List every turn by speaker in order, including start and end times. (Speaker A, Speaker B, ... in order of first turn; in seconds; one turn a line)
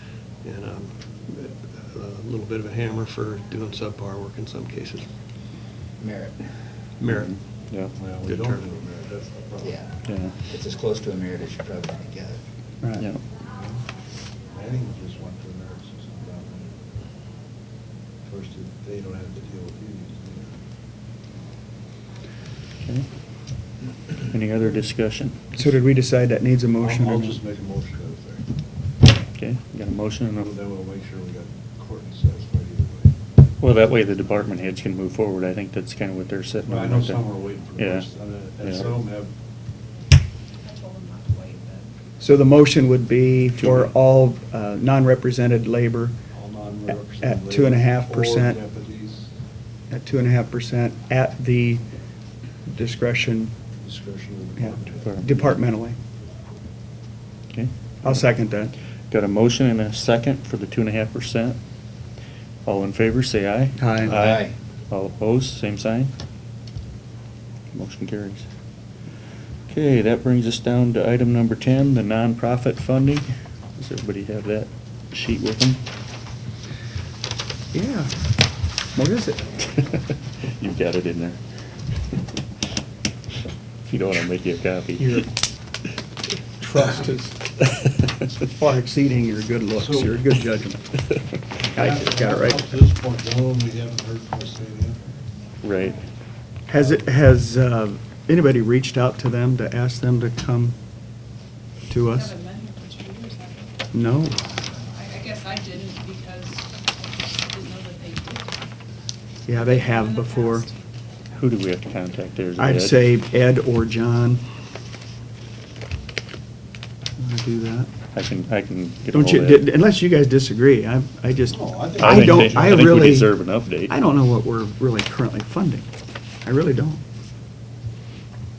Speaker A: 0.4-5.1
Speaker B: 6.0-6.8
Speaker A: 7.0-7.3
Speaker C: 7.1-8.1
Speaker D: 7.9-9.9
Speaker A: 8.3-8.6
Speaker B: 9.6-12.4
Speaker C: 10.1-10.3
Speaker D: 13.5-13.8
Speaker D: 14.5-16.8
Speaker D: 18.2-20.5
Speaker C: 24.3-25.4
Speaker E: 25.6-27.4
Speaker D: 26.8-28.4
Speaker C: 29.4-30.5
Speaker D: 30.4-33.1
Speaker C: 33.6-38.1
Speaker D: 36.6-39.3
Speaker F: 40.6-41.9
Speaker E: 42.2-46.1
Speaker D: 46.3-49.3
Speaker E: 47.2-48.6
Speaker E: 49.9-51.8
Speaker E: 52.6-53.5
Speaker D: 53.8-55.3
Speaker E: 54.6-56.0
Speaker C: 55.0-55.3
Speaker C: 57.5-58.2
Speaker E: 58.0-58.7
Speaker C: 59.1-61.6
Speaker C: 62.6-66.1
Speaker E: 63.8-64.2
Speaker B: 64.1-64.5
Speaker C: 67.7-68.5
Speaker C: 69.7-75.8
Speaker E: 77.7-78.3
Speaker E: 78.9-79.6
Speaker C: 79.9-81.4
Speaker C: 83.8-85.2
Speaker E: 85.0-85.3
Speaker E: 86.6-87.4
Speaker E: 88.2-90.9
Speaker D: 89.8-90.2
Speaker D: 91.7-95.0
Speaker E: 91.7-92.7
Speaker C: 95.6-96.0
Speaker E: 96.7-100.8
Speaker E: 101.9-102.4
Speaker F: 102.2-103.7
Speaker E: 103.9-104.5
Speaker F: 104.9-108.5
Speaker E: 109.5-110.7
Speaker F: 109.5-110.7
Speaker C: 111.3-113.0
Speaker E: 112.6-114.4
Speaker E: 117.2-117.9
Speaker C: 118.1-119.6
Speaker E: 119.1-125.9
Speaker D: 121.5-123.0
Speaker C: 122.0-123.9
Speaker E: 126.4-127.0